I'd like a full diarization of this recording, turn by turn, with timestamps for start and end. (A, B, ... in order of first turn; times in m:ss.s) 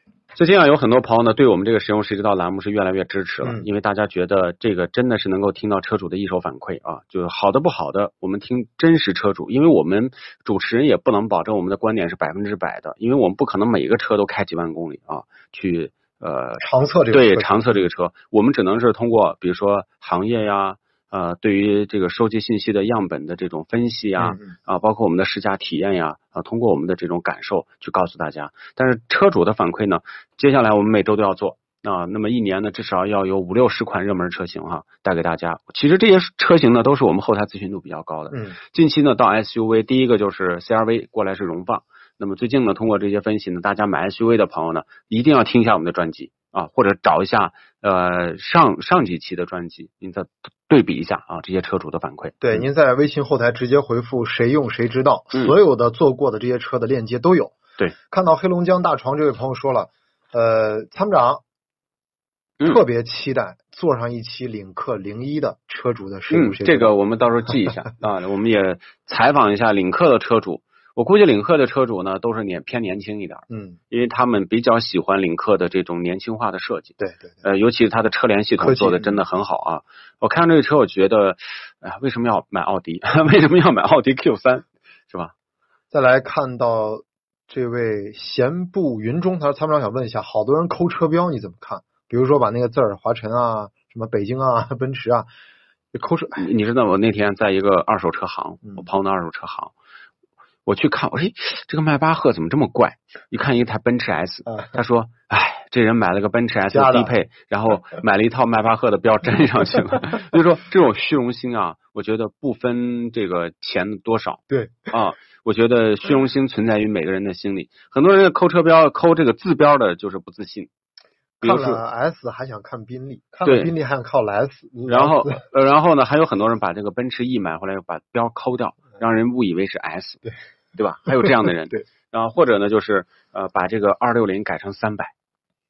0:00.3-0:52.6 A
0:03.4-0:03.7 B
0:16.6-0:17.8 B
0:24.2-0:24.5 B
0:38.3-0:38.6 B
0:52.4-0:57.6 B
0:58.1-1:01.4 B
1:02.6-1:06.9 B
1:06.3-1:25.3 A
1:07.5-1:07.9 B
1:13.5-1:13.8 B
1:17.0-1:17.4 B
1:18.6-1:19.2 B
1:25.9-1:35.3 B
1:35.9-1:36.4 B
1:36.4-1:39.7 A
1:40.6-2:00.7 A
1:44.4-1:44.7 B
1:46.7-1:47.1 B
1:54.5-1:54.9 B
2:01.4-2:01.8 A
2:01.4-2:05.4 B
2:03.4-2:03.7 A
2:04.9-2:10.2 A
2:10.8-2:15.1 A
2:11.2-2:11.8 B